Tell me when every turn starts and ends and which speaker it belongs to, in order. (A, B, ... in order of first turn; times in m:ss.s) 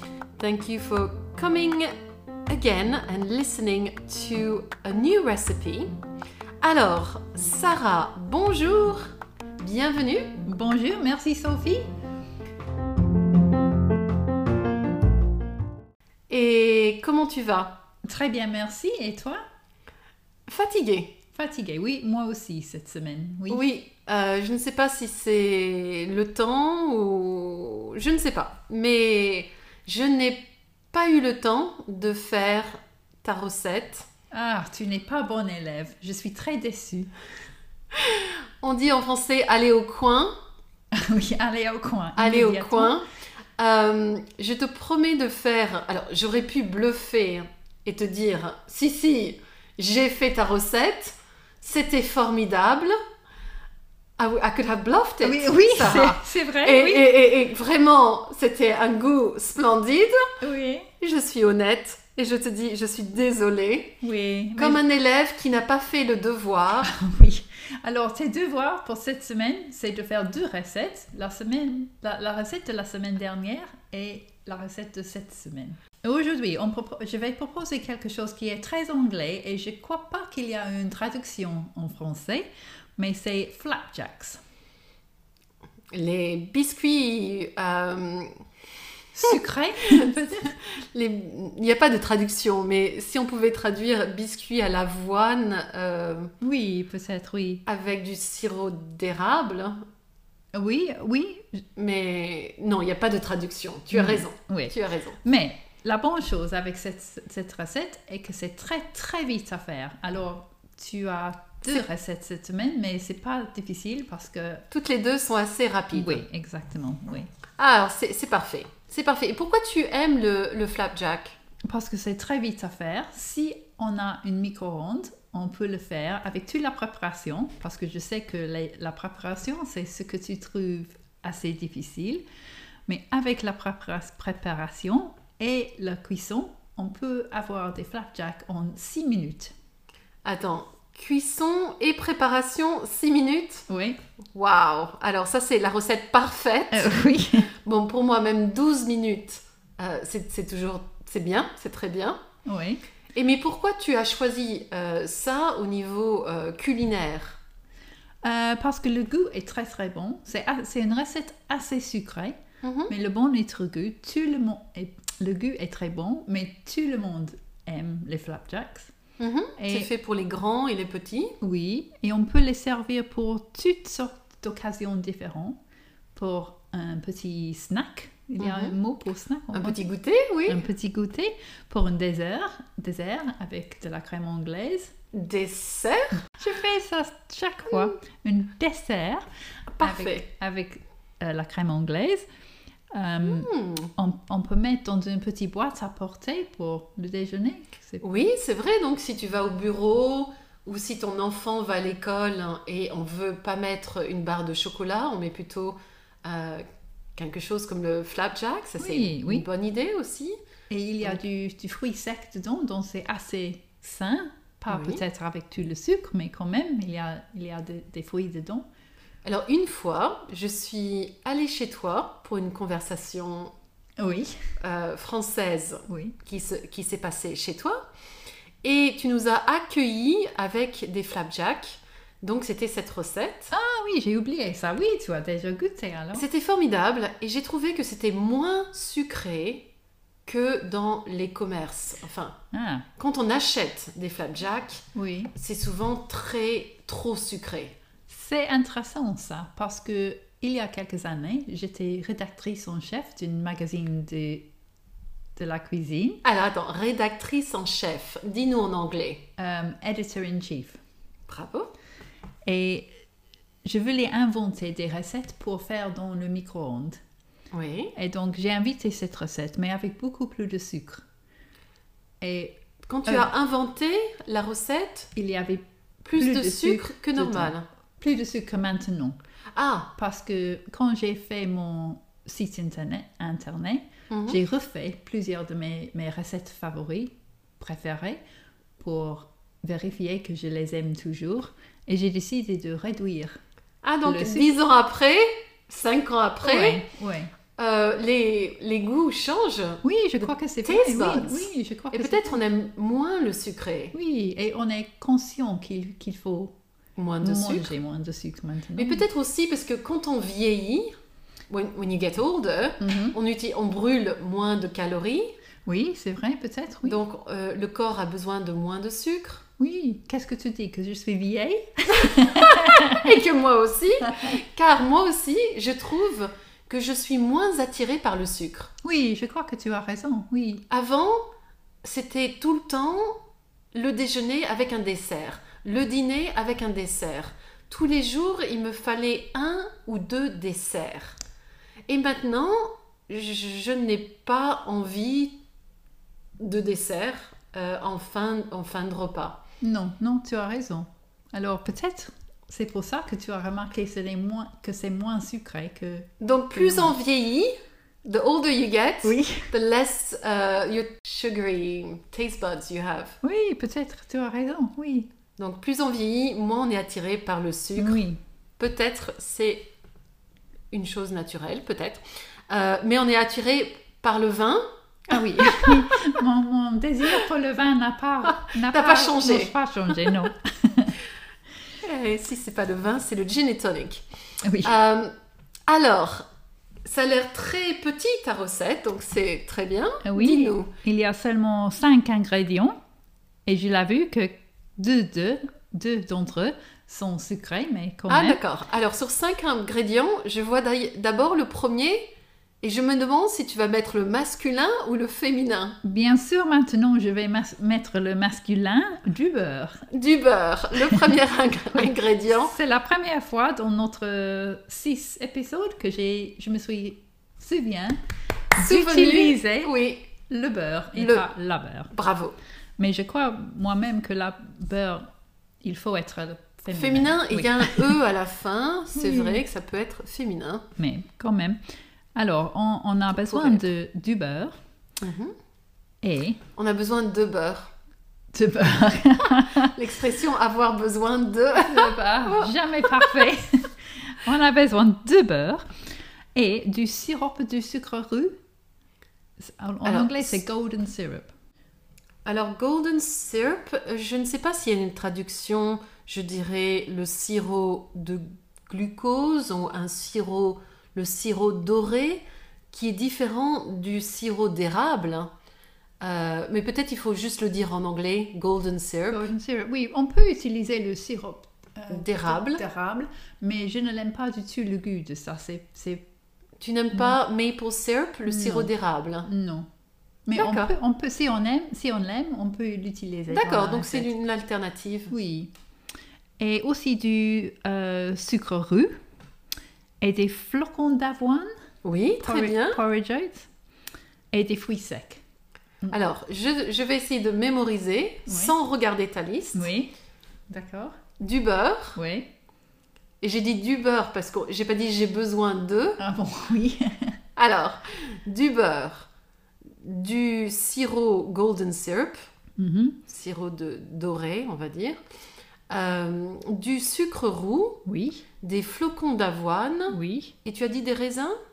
0:00.4-0:01.9 A
0:02.5-0:05.9 A
0:06.6-0:09.1 A
0:09.6-0:10.4 A
0:10.5-0:11.8 B
0:16.3-0:17.8 A
0:18.0-0:19.4 B
0:20.5-0:21.2 A
0:21.4-0:23.6 B
0:23.5-0:34.1 A
0:34.3-0:37.1 B
0:38.1-0:40.3 A
0:40.9-0:43.0 B
0:42.2-0:43.1 A
0:43.6-0:53.0 A
0:54.2-1:00.3 A
0:55.2-0:57.1 B
1:00.4-1:00.9 B
1:01.0-1:04.0 A
1:04.0-1:04.8 B
1:04.6-1:06.9 A
1:06.8-1:24.4 B
1:25.9-1:28.3 A
1:29.2-1:30.6 B
1:30.9-1:36.3 A
1:36.4-1:37.6 B
1:37.7-1:39.8 A
1:40.5-1:41.6 B
1:41.8-1:45.2 A
1:43.9-1:54.6 B
1:54.7-1:56.2 A
1:55.9-1:57.3 B
1:57.6-2:01.4 A
2:01.7-2:12.2 B
2:12.9-2:19.5 B
2:20.2-2:23.7 A
2:23.7-2:24.0 B
2:24.3-2:27.0 A
2:26.7-2:27.5 B
2:27.6-2:32.2 A
2:32.4-2:32.8 B
2:33.2-2:37.4 A
2:38.2-2:42.4 B
2:42.6-2:42.9 A
2:42.9-2:49.0 B
2:49.2-2:51.4 A
2:49.6-2:49.9 B
2:51.4-2:55.6 B
2:56.2-2:59.8 B
2:58.4-2:58.8 A
2:59.5-3:00.6 A
3:00.5-3:04.9 B
3:05.1-3:06.2 A
3:06.4-3:09.3 B
3:09.7-3:10.3 A
3:09.8-3:12.3 B
3:12.9-3:18.0 B
3:13.2-3:13.9 A
3:18.0-3:26.6 A
3:27.2-3:30.4 A
3:28.8-3:29.5 B
3:30.7-3:38.7 B
3:34.7-3:35.0 A
3:39.2-3:43.5 A
3:44.0-3:44.4 B
3:44.6-3:47.8 A
3:45.9-3:46.2 B
3:48.6-3:53.5 A
3:53.5-3:56.3 B
3:56.1-3:59.7 A
4:00.3-4:02.4 A
4:02.5-4:02.9 B
4:03.0-4:07.8 A
4:05.0-4:05.3 B
4:08.1-4:14.5 B
4:15.4-4:16.2 B
4:16.2-4:19.2 A
4:19.4-4:20.8 B
4:21.3-4:21.7 A
4:22.5-4:22.9 B
4:23.6-4:27.0 B
4:27.5-4:27.9 A
4:28.0-4:31.0 B
4:32.2-4:33.3 B
4:32.8-4:35.1 A
4:35.2-4:39.2 B
4:36.0-4:37.6 A
4:39.6-4:39.9 A
4:40.0-4:48.2 B
4:44.1-4:44.4 A
4:48.8-4:53.4 B
4:53.8-4:56.8 A
4:54.0-4:54.6 B
4:56.4-4:57.3 B
4:57.6-5:04.0 A
4:59.8-5:02.4 B
5:03.9-5:06.6 B
5:07.0-5:07.7 A
5:07.2-5:09.0 B
5:08.8-5:10.9 A
5:11.5-5:15.4 A
5:12.8-5:13.2 B
5:15.7-5:17.0 B
5:16.8-5:19.4 A
5:19.6-5:23.1 B
5:22.3-5:28.7 A
5:28.8-5:30.6 B
5:30.7-5:31.2 A
5:31.8-5:33.2 A
5:33.7-5:41.2 A
5:41.9-5:45.4 A
5:46.4-5:49.4 A
5:49.6-5:56.9 B
5:56.2-6:03.2 A
5:59.0-5:59.5 B
6:03.2-6:05.1 B
6:05.4-6:08.0 A
6:07.8-6:08.2 B
6:08.6-6:09.7 A
6:10.7-6:14.6 A
6:15.1-6:20.9 B
6:15.2-6:15.8 A
6:18.4-6:19.5 A
6:21.8-6:24.0 A
6:24.4-6:24.7 B
6:24.6-6:25.1 A
6:25.7-6:26.3 A
6:26.9-6:30.7 A
6:30.0-6:32.8 B
6:33.5-6:38.4 B
6:38.1-6:42.0 A
6:42.6-6:45.8 A
6:45.8-6:49.8 B
6:49.9-6:52.5 A
6:52.3-6:58.0 B
6:58.6-6:59.7 B
6:58.6-7:00.1 A
7:00.3-7:01.9 B
7:01.0-7:01.3 A
7:01.9-7:02.4 A
7:02.8-7:05.1 B
7:05.6-7:08.0 B
7:06.7-7:10.6 A
7:09.0-7:09.4 B
7:10.8-7:11.6 B
7:12.2-7:14.6 B
7:13.1-7:13.7 A
7:15.0-7:15.4 A
7:16.0-7:16.4 B
7:16.6-7:17.7 A
7:18.3-7:19.7 B
7:19.7-7:23.2 A
7:21.7-7:25.7 B
7:26.4-7:28.4 B
7:29.4-7:31.3 B
7:29.8-7:30.4 A
7:32.3-7:45.3 A
7:46.0-7:49.3 A
7:49.1-7:56.0 B
7:51.9-7:52.6 A
7:56.6-7:59.3 A
7:58.3-7:58.7 B
7:59.3-7:59.7 B
8:00.3-8:04.1 B
8:00.4-8:00.7 A
8:03.3-8:05.1 A
8:05.1-8:05.5 B
8:06.4-8:09.0 B
8:10.0-8:11.5 B
8:11.8-8:12.8 A
8:12.2-8:13.5 B
8:14.3-8:15.2 B
8:15.9-8:19.7 A
8:18.3-8:18.6 B
8:19.5-8:19.9 B
8:20.5-8:21.0 B
8:21.2-8:22.0 A
8:22.0-8:22.3 B
8:23.2-8:26.0 A
8:26.0-8:27.1 B
8:27.4-8:29.1 A
8:29.8-8:32.2 A
8:32.6-8:33.0 B
8:33.1-8:35.0 A
8:35.7-8:37.8 A
8:37.9-8:38.2 B
8:38.4-8:41.4 A
8:39.9-8:40.3 B